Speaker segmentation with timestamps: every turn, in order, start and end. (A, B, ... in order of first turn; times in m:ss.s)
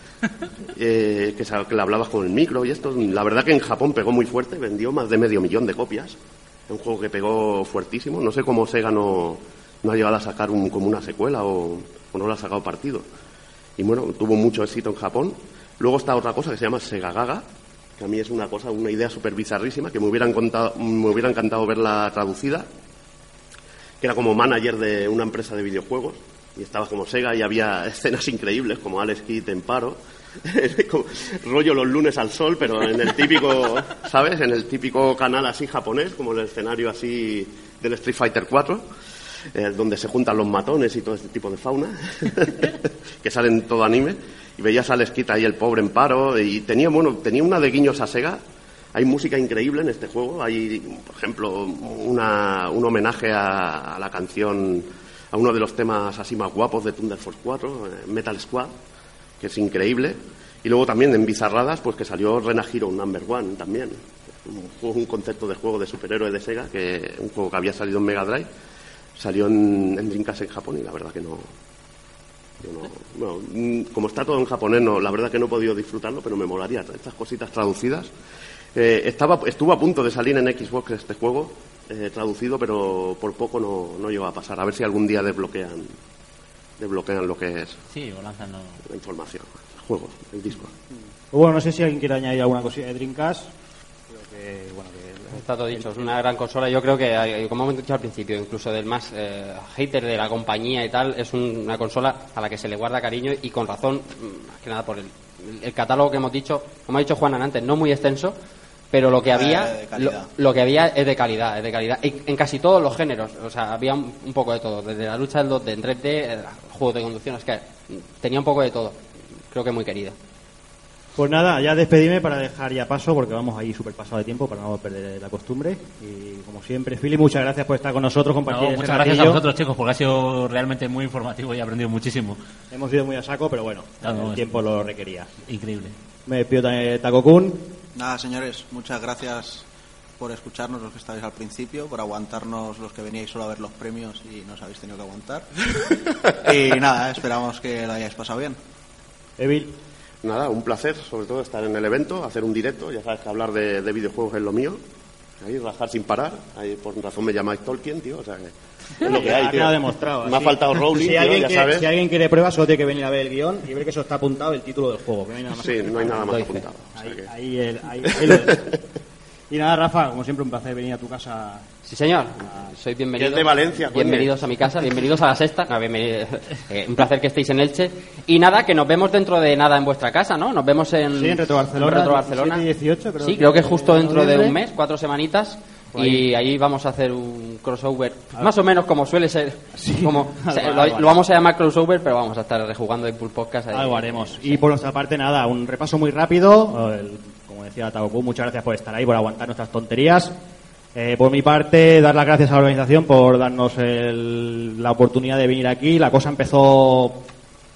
0:00.7-0:06.2 A
0:06.7-0:13.0 A
0:13.8-0:17.4 A
0:18.0-0:22.6 A
0:24.0-0:38.8 A
0:39.5-0:48.4 A
0:48.9-0:58.7 A
0:59.4-1:08.5 A
1:09.2-1:11.5 A
1:12.6-1:18.1 A
1:18.7-1:25.9 A
1:26.8-1:27.8 A
1:27.9-1:28.8 B
1:28.8-1:30.7 A
1:31.3-1:33.5 C
1:34.1-1:35.9 C
1:35.3-1:48.4 D
1:48.9-1:59.0 D
1:49.2-1:50.3 E
1:59.5-2:00.2 D
2:01.2-2:09.4 C
2:08.5-2:12.4 B
2:12.7-2:15.3 C
2:14.0-2:14.6 B
2:15.4-2:15.9 B
2:16.2-2:17.7 C
2:17.9-2:19.6 E
2:20.2-2:28.6 E
2:29.4-2:29.7 C
2:30.2-2:34.8 A
2:35.4-2:41.9 A
2:39.0-2:46.4 C
2:45.5-2:47.3 A
2:46.3-2:46.6 D
2:47.0-2:48.8 C
2:48.0-2:48.7 A
2:49.5-2:51.6 C
2:51.8-3:02.6 D
2:53.2-2:54.3 A
3:01.1-3:04.6 C
3:03.2-3:14.6 D
3:05.9-3:06.3 C
3:09.7-3:11.2 C
3:13.7-3:20.3 C
3:20.9-3:27.2 C